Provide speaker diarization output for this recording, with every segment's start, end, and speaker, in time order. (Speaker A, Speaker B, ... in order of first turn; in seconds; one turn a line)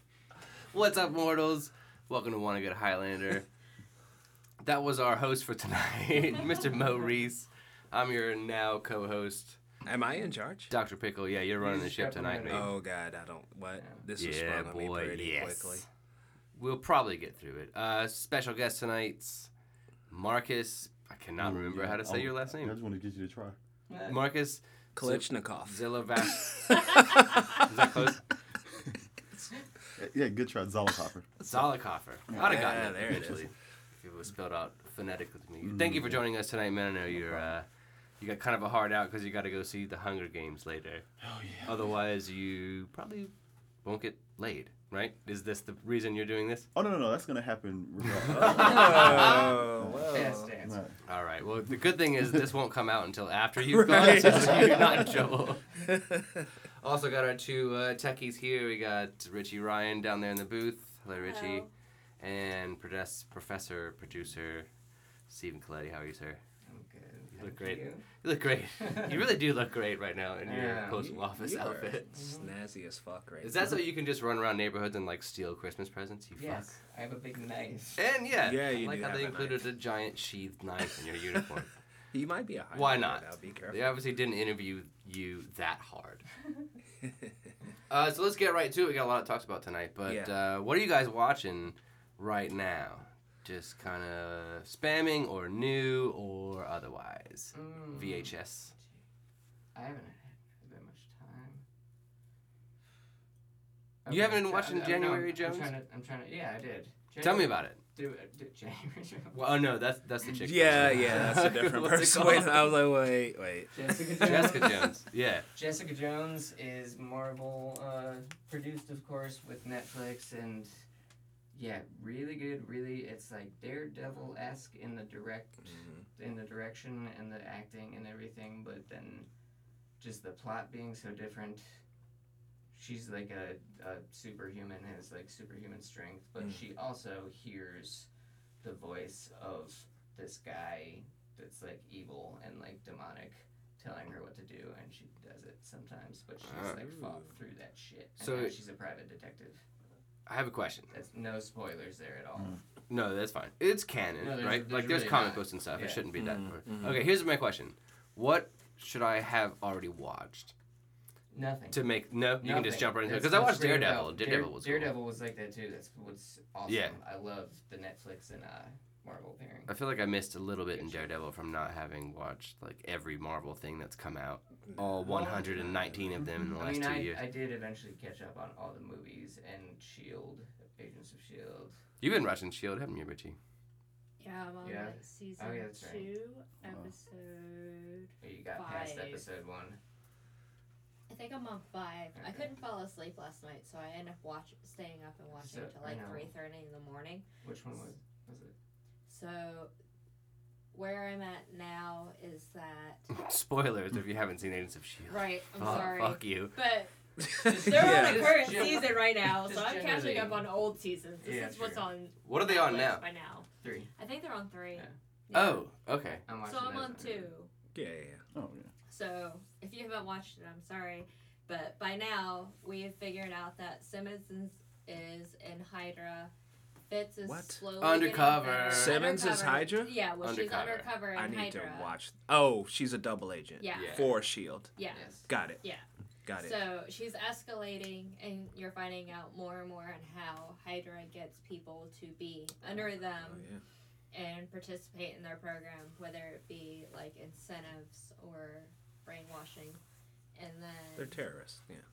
Speaker A: 0.7-3.5
Speaker A: 4.6-9.6
Speaker B: 9.8-10.7
Speaker A: 10.7-12.7
Speaker C: 11.6-12.8
Speaker B: 12.5-15.8
Speaker C: 13.8-14.1
Speaker A: 14.2-15.8
Speaker A: 16.6-19.5
Speaker A: 20.1-22.8
Speaker D: 21.4-23.6
Speaker C: 23.9-24.2
Speaker A: 24.1-27.0
Speaker B: 24.9-27.7
Speaker A: 27.6-28.2
Speaker D: 30.0-31.3
Speaker A: 31.4-37.7
Speaker D: 32.3-32.7
Speaker B: 32.3-33.5
Speaker D: 35.6-36.2
Speaker D: 37.1-37.5
Speaker A: 38.2-41.0
Speaker D: 41.2-41.8
Speaker A: 41.6-43.3
Speaker A: 43.8-46.7
Speaker D: 46.8-51.0
Speaker A: 48.3-49.6
Speaker B: 48.3-50.5
Speaker C: 48.7-49.4
Speaker C: 50.1-50.8
Speaker A: 51.0-55.8
Speaker B: 53.6-55.2
Speaker B: 55.8-56.5
Speaker A: 56.8-61.7
Speaker E: 61.2-61.7
Speaker A: 62.2-64.7
Speaker A: 65.3-66.4
Speaker C: 66.7-68.1
Speaker A: 67.4-72.1
Speaker C: 68.8-69.2
Speaker C: 70.5-71.0
Speaker B: 71.0-73.8
Speaker C: 72.1-72.5
Speaker A: 73.4-76.7
Speaker C: 76.4-78.0
Speaker A: 78.0-81.7
Speaker B: 78.4-79.6
Speaker B: 82.1-83.9
Speaker A: 82.7-86.2
Speaker B: 87.0-87.5
Speaker A: 87.9-98.7
Speaker B: 90.1-90.3
Speaker C: 97.5-98.8
Speaker C: 99.7-101.6
Speaker C: 104.0-109.4
Speaker A: 104.1-105.7
Speaker A: 107.2-107.8
Speaker A: 109.3-112.7
Speaker B: 110.4-114.4
Speaker C: 113.7-114.9
Speaker A: 114.2-115.5
Speaker C: 115.5-120.8
Speaker C: 121.5-129.3
Speaker B: 125.6-126.1
Speaker C: 130.0-131.8
Speaker C: 132.7-138.1
Speaker C: 138.6-149.6
Speaker A: 146.4-146.8
Speaker B: 146.8-147.3
Speaker A: 148.2-148.6
Speaker A: 150.3-150.9
Speaker C: 150.9-152.6
Speaker A: 152.9-160.5
Speaker C: 154.2-156.0
Speaker B: 156.2-157.1
Speaker C: 161.3-161.8
Speaker A: 161.7-165.0
Speaker C: 162.3-169.7
Speaker A: 166.7-167.0
Speaker A: 169.7-177.2
Speaker C: 170.7-171.1
Speaker C: 175.0-175.8
Speaker C: 176.6-181.8
Speaker A: 182.0-183.4
Speaker E: 184.2-189.2
Speaker C: 184.6-186.1
Speaker D: 186.6-186.9
Speaker C: 188.2-189.8
Speaker E: 191.1-197.2
Speaker C: 192.2-192.5
Speaker C: 195.3-196.3
Speaker C: 197.4-198.5
Speaker E: 199.1-199.7
Speaker E: 200.7-203.1
Speaker A: 203.1-206.6
Speaker E: 205.1-215.7
Speaker B: 207.2-208.7
Speaker C: 207.4-210.5
Speaker C: 211.2-211.9
Speaker A: 212.2-213.0
Speaker C: 213.6-213.9
Speaker A: 215.3-216.2
Speaker C: 216.3-217.3
Speaker E: 216.4-217.5
Speaker B: 217.8-218.2
Speaker D: 218.3-218.7
Speaker E: 218.9-226.3
Speaker E: 226.9-232.0
Speaker B: 227.2-227.7
Speaker A: 227.8-229.0
Speaker B: 228.7-230.0
Speaker A: 230.2-230.9
Speaker B: 231.1-234.8
Speaker E: 233.6-234.2
Speaker A: 233.7-234.1
Speaker E: 234.8-243.5
Speaker C: 234.9-235.3
Speaker B: 235.3-235.6
Speaker B: 236.2-236.6
Speaker B: 243.2-243.6
Speaker E: 244.1-249.8
Speaker E: 250.3-251.2
Speaker B: 251.0-251.8